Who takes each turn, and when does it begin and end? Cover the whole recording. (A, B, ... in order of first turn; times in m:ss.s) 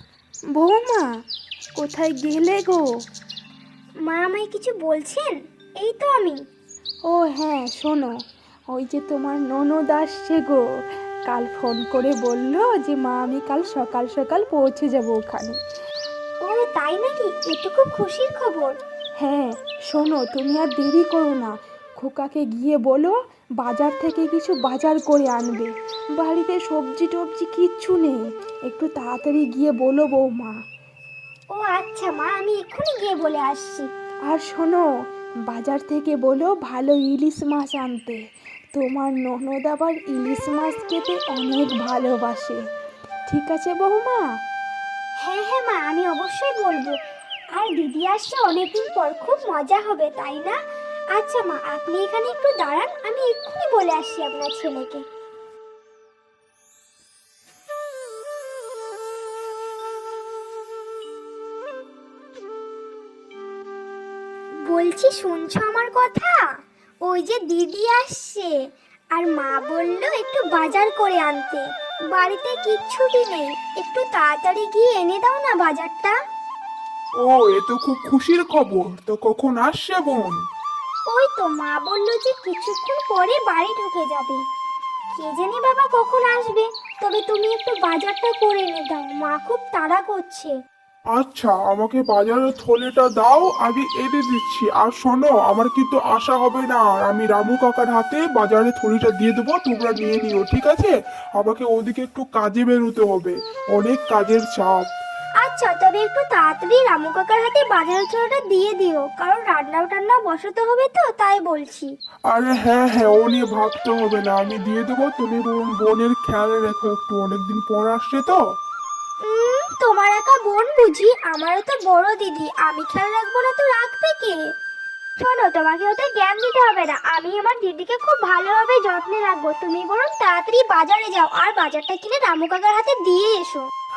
0:00.6-0:01.1 A
0:01.8-0:02.8 A
0:04.1-0:06.4 B
0:07.1-0:08.1 A
0:08.7-0:10.6 A
0:11.3-0:15.6 A
0:16.4-0:18.8 B
0:19.2-0:30.6 A
0:31.5-0:33.9 B
0:34.3-0:34.8 A
0:35.5-0:38.2 A
0:38.8-0:42.6 A
0:43.3-0:44.2 A
0:45.2-0:47.0 B
0:47.6-0:50.6 B
0:51.2-0:55.0 B
1:04.7-1:06.5 B
1:07.0-1:08.5 B
1:09.1-1:16.2 B
1:17.2-1:20.4 C
1:21.1-1:24.4 B
1:25.2-1:30.6 B
1:31.2-1:44.8 C
1:45.4-1:51.9 B
1:52.3-1:58.4 C
1:59.3-2:04.4 B
2:05.2-2:13.7 B